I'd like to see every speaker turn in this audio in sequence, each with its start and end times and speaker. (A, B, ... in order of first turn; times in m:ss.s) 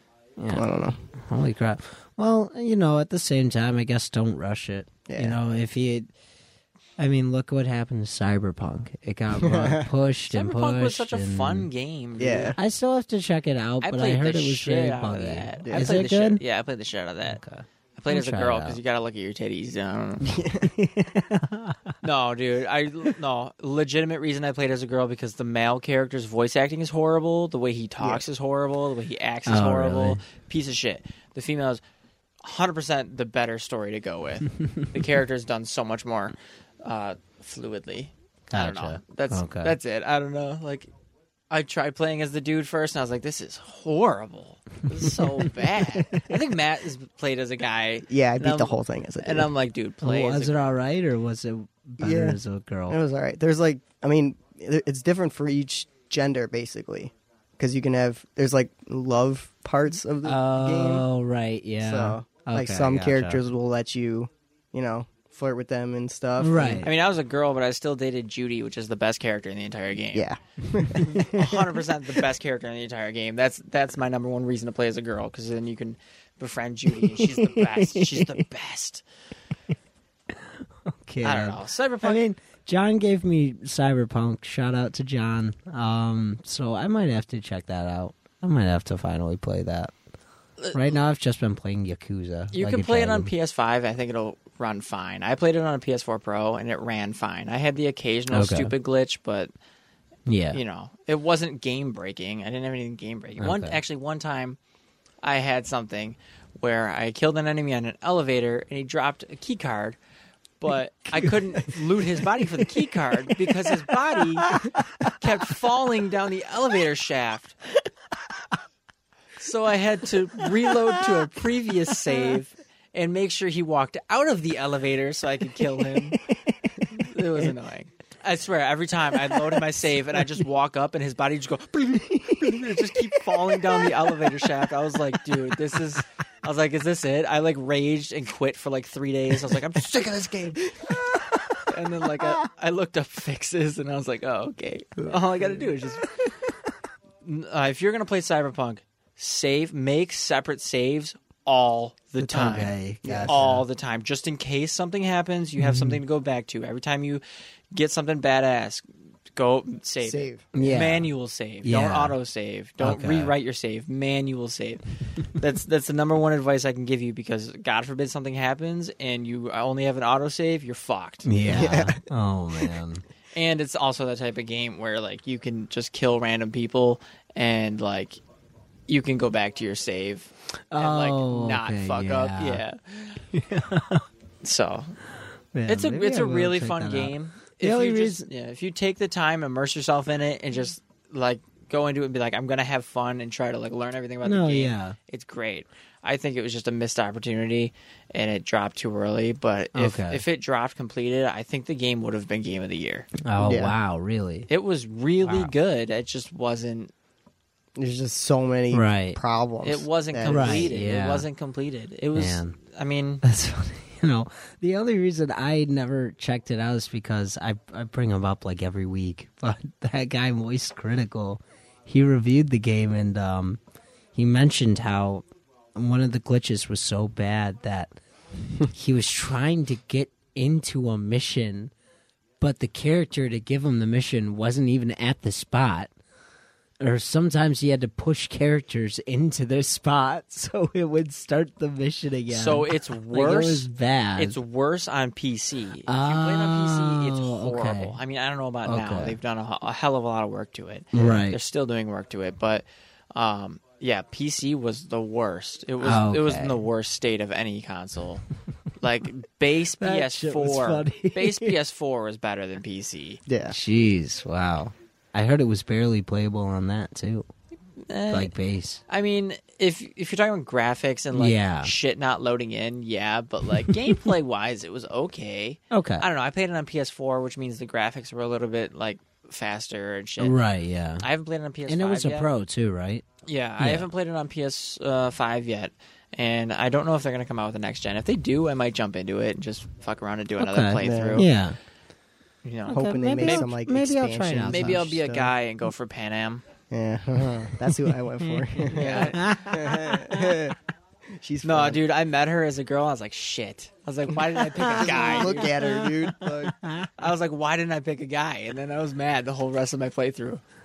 0:00.4-0:06.1 A
0:00.5-0:01.0 B
0:05.1-0:05.4 B
0:07.0-0:11.7 A
0:09.4-0:09.8 B
0:10.3-0:12.5 C
0:12.2-0:12.6 B
0:12.6-0:16.4 A
0:13.8-0:17.4 C
0:15.6-0:15.9 B
0:17.3-0:18.8 A
0:18.0-0:20.4 C
0:20.2-0:20.7 B
0:20.6-0:22.0 A
0:22.0-0:31.8 C
0:29.5-0:30.2 A
0:32.4-0:40.9 C
0:38.5-0:39.7 A
0:41.5-0:50.7 C
0:45.9-0:46.4 A
0:48.1-0:49.5 B
0:50.0-0:53.0 A
0:52.0-1:01.0 B
1:00.2-1:03.4 A
1:01.8-1:06.8 B
1:06.4-1:06.9 A
1:06.8-1:10.3 C
1:10.1-1:11.5 B
1:10.9-1:19.0 C
1:17.0-1:18.3 A
1:20.3-1:29.9 A
1:21.2-1:22.2 C
1:30.7-1:33.3 A
1:32.5-1:39.5 C
1:38.3-1:38.7 A
1:40.2-1:40.6 A
1:40.5-1:44.6 C
1:43.4-1:43.8 A
1:45.2-1:50.0 C
1:50.6-1:54.6 C
1:54.5-1:55.1 A
1:55.1-1:57.6 C
1:59.4-2:06.2 C
2:00.7-2:01.3 A
2:02.1-2:02.3 A
2:05.6-2:06.8 A
2:06.8-2:20.5 C
2:09.3-2:09.6 A
2:12.3-2:12.5 A
2:19.7-2:21.4 B
2:21.7-2:26.1 C
2:25.4-2:25.6 B
2:27.2-2:51.3 C
2:32.2-2:33.6 A
2:33.0-2:33.5 B
2:35.6-2:36.0 A
2:40.0-2:40.5 B
2:40.5-2:41.1 A
2:41.6-2:42.2 A
2:42.8-2:43.3 A
2:51.2-2:53.0 A
2:51.5-2:52.0 B
2:53.3-2:58.2 C
2:58.9-3:03.2 C
3:00.7-3:02.6 A
3:03.3-3:04.0 A
3:04.4-3:05.0 C
3:05.5-3:08.3 A
3:05.7-3:23.1 C
3:14.2-3:15.0 A
3:19.7-3:20.2 A
3:23.2-3:24.5 A
3:23.4-3:23.7 B
3:24.5-3:26.9 C
3:25.2-3:25.5 A
3:27.8-3:30.7 B
3:28.7-3:29.2 A
3:29.6-3:33.2 C
3:30.2-3:31.2 A
3:32.1-3:32.5 A
3:33.2-3:43.6 A
3:44.1-3:48.0 A
3:48.7-3:51.7 A
3:52.4-3:55.9 A
3:56.8-4:04.4 A
4:02.3-4:18.2 C
4:05.8-4:08.0 A
4:08.6-4:09.2 A
4:10.9-4:11.4 A
4:15.8-4:16.6 A
4:18.8-4:23.2 C
4:19.8-4:21.5 A
4:23.3-4:23.6 B
4:23.5-4:27.3 A
4:27.8-4:28.3 C
4:28.1-4:28.8 A
4:28.9-4:40.4 C
4:31.1-4:31.7 A
4:35.7-4:36.0 A
4:40.2-4:41.1 A
4:41.0-4:42.3 C
4:41.7-4:43.0 A
4:43.2-4:51.3 C
4:43.6-4:43.9 A
4:50.4-4:51.6 A
4:50.8-4:51.2 B
4:52.4-4:53.5 C
4:52.7-4:54.9 A
4:52.7-4:55.3 B
4:54.5-4:56.4 C
4:56.7-5:00.6 B
4:58.3-5:00.2 A
4:58.7-4:59.9 C
5:01.1-5:01.8 B
5:01.4-5:05.5 C
5:04.4-5:06.9 A
5:04.6-5:06.6 B
5:07.0-5:10.4 C